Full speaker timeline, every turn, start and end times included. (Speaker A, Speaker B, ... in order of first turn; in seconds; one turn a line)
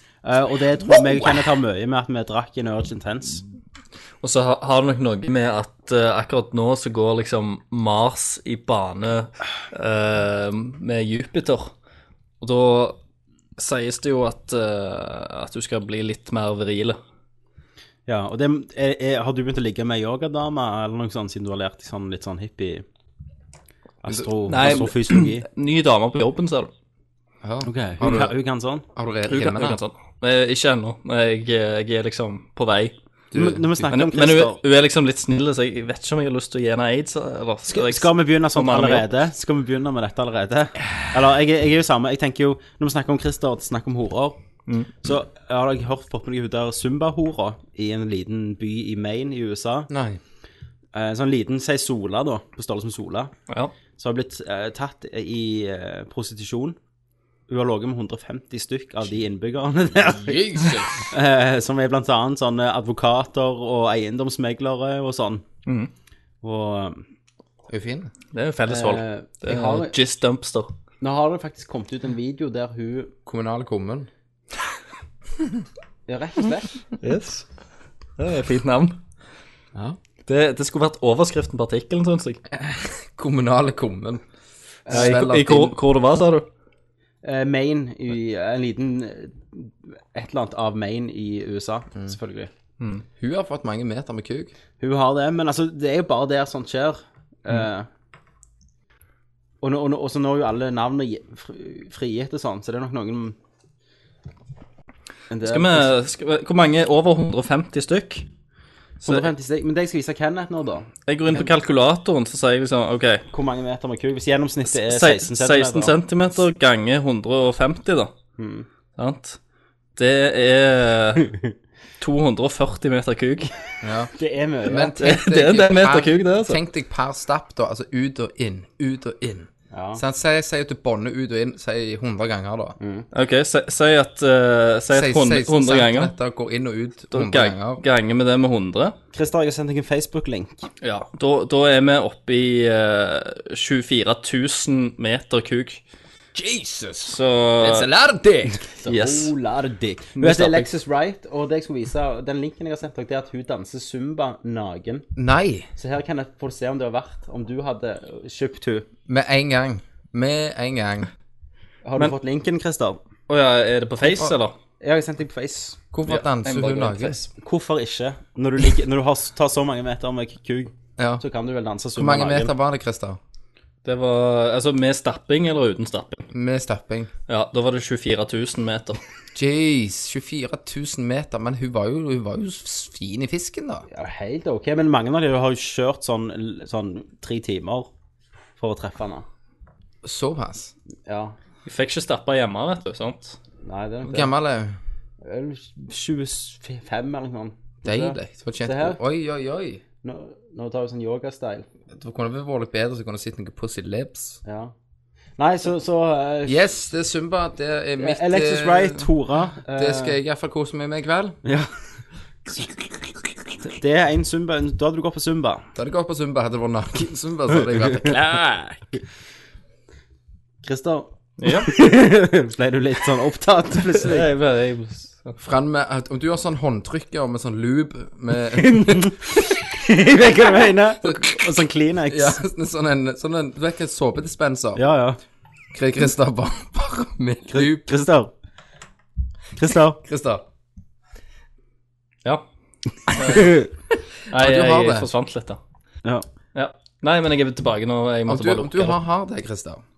Speaker A: 0.2-3.4
Speaker B: 4.2-11.7
Speaker B: 12.4-13.0
Speaker B: 13.6-17.0
Speaker A: 18.1-22.8
Speaker A: 24.0-25.4
Speaker B: 24.5-26.7
Speaker C: 27.4-28.3
Speaker A: 27.6-28.8
Speaker C: 28.9-29.8
Speaker B: 29.3-32.9
Speaker C: 33.3-33.9
Speaker A: 33.3-34.6
Speaker B: 33.9-39.1
Speaker A: 37.7-44.4
Speaker B: 44.7-44.9
Speaker A: 45.0-49.9
Speaker C: 49.9-50.2
Speaker A: 50.9-53.3
Speaker A: 54.0-56.8
Speaker A: 57.5-65.4
Speaker C: 60.2-61.0
Speaker B: 65.7-65.9
Speaker A: 66.4-67.0
Speaker C: 67.7-68.1
Speaker B: 68.3-70.7
Speaker A: 68.7-69.9
Speaker A: 71.0-73.1
Speaker C: 73.2-74.1
Speaker A: 76.1-76.8
Speaker B: 77.0-77.5
Speaker B: 78.2-79.0
Speaker B: 80.3-82.4
Speaker C: 82.5-84.2
Speaker A: 84.8-85.3
Speaker C: 84.8-85.8
Speaker B: 84.9-86.5
Speaker A: 87.2-92.5
Speaker C: 93.2-94.5
Speaker A: 94.8-97.9
Speaker A: 99.6-103.3
Speaker A: 105.3-105.9
Speaker B: 105.4-108.2
Speaker B: 109.0-109.3
Speaker A: 109.0-110.9
Speaker B: 111.1-113.2
Speaker A: 113.3-116.0
Speaker B: 114.7-118.1
Speaker A: 118.4-118.7
Speaker B: 119.0-119.4
Speaker B: 120.0-121.3
Speaker B: 122.0-123.5
Speaker C: 123.8-124.1
Speaker A: 124.2-125.2
Speaker C: 124.6-132.8
Speaker B: 125.0-126.6
Speaker A: 129.7-130.0
Speaker A: 132.8-133.1
Speaker B: 133.1-136.1
Speaker C: 134.9-137.8
Speaker B: 137.1-138.9
Speaker A: 139.1-140.7
Speaker B: 140.8-145.8
Speaker C: 146.3-148.6
Speaker B: 147.1-147.9
Speaker B: 148.8-149.3
Speaker A: 148.8-155.1
Speaker B: 150.2-150.7
Speaker C: 155.2-155.7
Speaker A: 155.8-158.9
Speaker C: 159.1-161.1
Speaker A: 161.8-163.0
Speaker B: 163.3-164.6
Speaker A: 164.8-165.8
Speaker C: 165.9-167.2
Speaker B: 166.1-167.2
Speaker A: 167.3-172.5
Speaker C: 171.0-171.2
Speaker C: 171.9-173.2
Speaker B: 173.8-176.2
Speaker C: 176.3-177.1
Speaker B: 177.3-179.0
Speaker C: 179.3-183.8
Speaker A: 183.9-187.9
Speaker A: 188.6-189.2
Speaker C: 190.0-190.7
Speaker A: 191.1-191.3
Speaker B: 191.7-193.4
Speaker A: 193.6-194.3
Speaker C: 194.0-194.8
Speaker A: 195.2-199.0
Speaker C: 197.8-199.8
Speaker A: 200.0-201.7
Speaker C: 201.9-204.4
Speaker A: 204.4-204.7
Speaker A: 205.4-206.7
Speaker C: 206.4-209.1
Speaker A: 208.0-210.2
Speaker C: 209.7-211.4
Speaker A: 211.4-211.7
Speaker A: 212.4-212.7
Speaker A: 213.6-215.6
Speaker C: 215.7-218.4
Speaker A: 217.6-218.8
Speaker A: 220.6-224.3
Speaker B: 221.4-221.7
Speaker B: 224.0-225.4
Speaker C: 225.4-229.2
Speaker A: 228.6-232.4
Speaker C: 231.0-231.4
Speaker C: 232.1-234.8
Speaker A: 234.8-235.2
Speaker C: 235.7-237.9
Speaker A: 237.5-238.3
Speaker A: 239.6-240.0
Speaker C: 240.0-240.4
Speaker B: 243.1-243.6
Speaker A: 243.3-243.6
Speaker B: 244.3-245.6
Speaker C: 244.3-245.1
Speaker B: 246.5-249.0
Speaker C: 248.3-249.8